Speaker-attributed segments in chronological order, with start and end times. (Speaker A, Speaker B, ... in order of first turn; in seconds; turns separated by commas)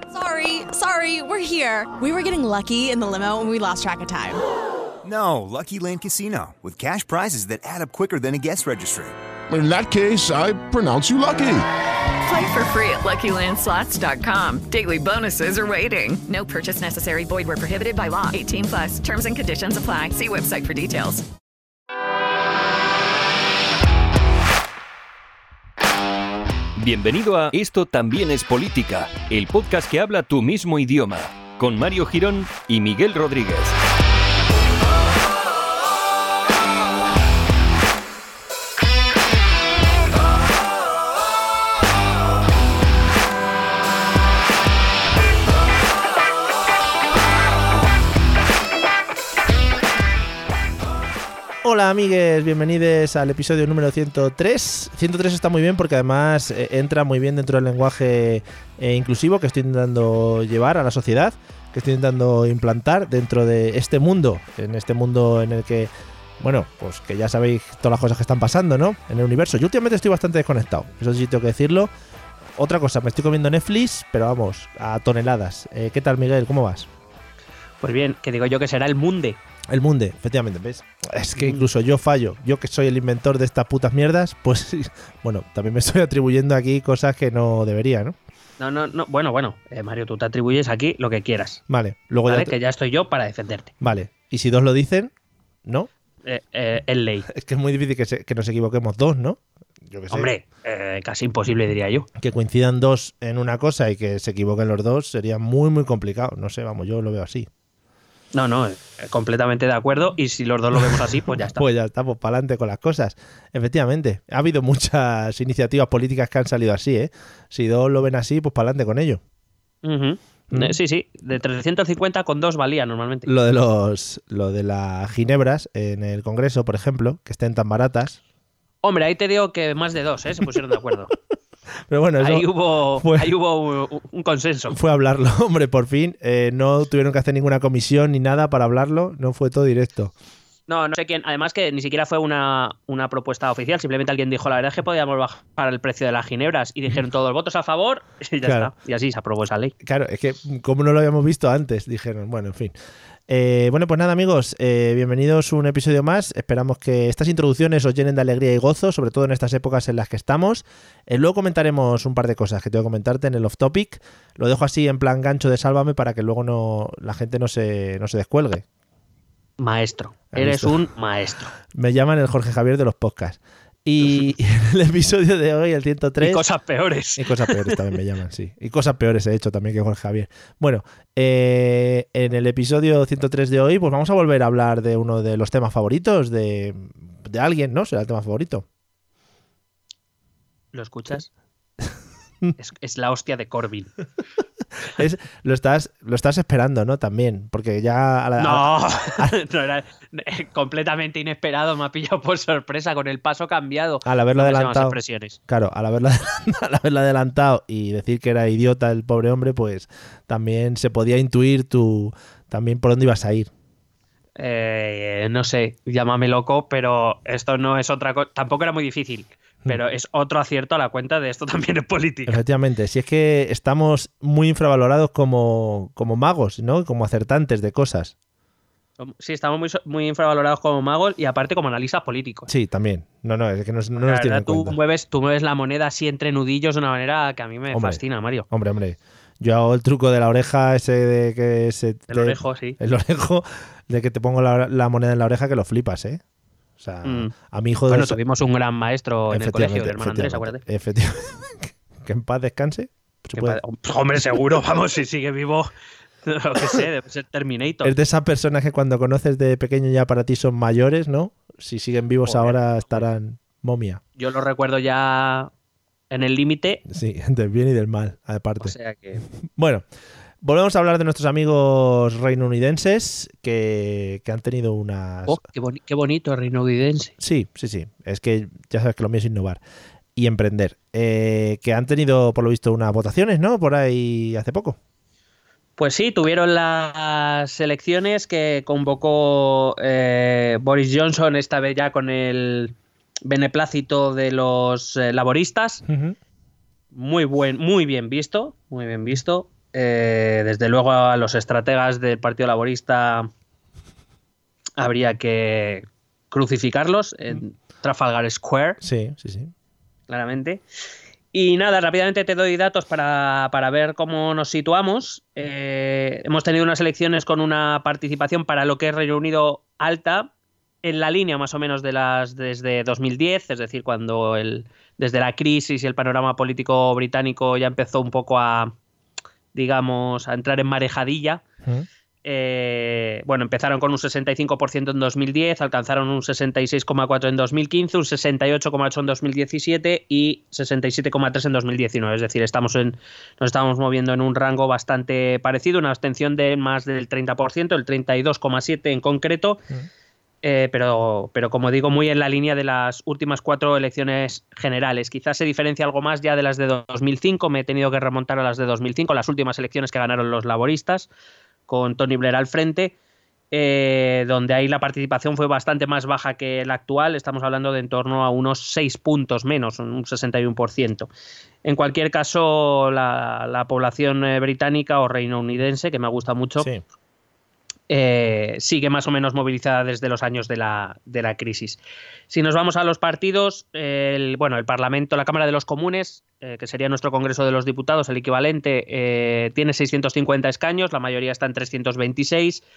Speaker A: 0.1-4.4, Speaker B: 5.0-9.1, Speaker C: 9.5-11.6, Speaker D: 12.2-21.2, Speaker E: 26.8-33.8, Speaker F: 51.6-71.9, Speaker F: 72.5-76.9, Speaker G: 77.8-79.4, Speaker F: 79.7-88.2, Speaker G: 81.4-81.6, Speaker G: 88.6-91.6, Speaker F: 91.7-92.5, Speaker G: 92.3-93.7, Speaker F: 93.8-95.1, Speaker F: 95.6-95.9, Speaker G: 96.2-97.2, Speaker F: 97.3-100.3, Speaker G: 100.1-102.1, Speaker F: 102.2-107.5, Speaker G: 108.3-111.6, Speaker F: 110.7-119.2, Speaker G: 119.8-123.3, Speaker F: 120.5-120.8, Speaker F: 123.2-128.2, Speaker G: 128.8-131.1, Speaker F: 131.9-132.5, Speaker G: 132.2-134.8, Speaker F: 133.0-133.3, Speaker F: 134.7-140.1, Speaker G: 140.7-149.7, Speaker F: 148.4-148.7, Speaker F: 149.8-152.7, Speaker F: 153.3-168.6, Speaker G: 169.6-171.5, Speaker F: 170.3-170.8, Speaker F: 171.7-176.4, Speaker G: 176.2-177.8, Speaker F: 177.2-188.6, Speaker G: 190.7-191.3, Speaker G: 192.6-193.9, Speaker F: 194.9-199.3, Speaker G: 198.4-205.4, Speaker F: 204.0-213.5, Speaker G: 214.4-222.4, Speaker F: 222.2-228.1, Speaker G: 229.0-232.5, Speaker F: 232.5-234.8, Speaker G: 234.0-238.4, Speaker F: 237.7-246.2, Speaker G: 242.1-242.8, Speaker F: 246.8-248.2, Speaker G: 247.0-247.3, Speaker G: 247.9-250.6, Speaker F: 249.3-253.6, Speaker G: 253.3-255.7, Speaker G: 256.2-257.9, Speaker F: 257.8-264.0, Speaker G: 262.2-263.0, Speaker G: 264.2-265.5, Speaker G: 266.1-266.8, Speaker F: 266.9-268.8, Speaker G: 268.6-269.2, Speaker F: 269.4-269.8, Speaker F: 270.4-275.4, Speaker G: 275.3-277.1, Speaker F: 277.2-279.6, Speaker F: 280.1-284.8, Speaker G: 285.8-292.7, Speaker G: 293.2-295.8, Speaker F: 295.9-296.2, Speaker G: 296.9-303.3, Speaker G: 304.8-308.8, Speaker F: 308.8-309.5, Speaker G: 310.1-310.6, Speaker G: 311.3-320.3, Speaker G: 320.8-328.7, Speaker G: 329.5-331.4, Speaker G: 332.2-349.6, Speaker G: 350.4-361.1, Speaker G: 361.7-362.9, Speaker G: 363.5-371.1, Speaker G: 371.6-376.7, Speaker F: 376.6-376.8, Speaker G: 377.9-392.6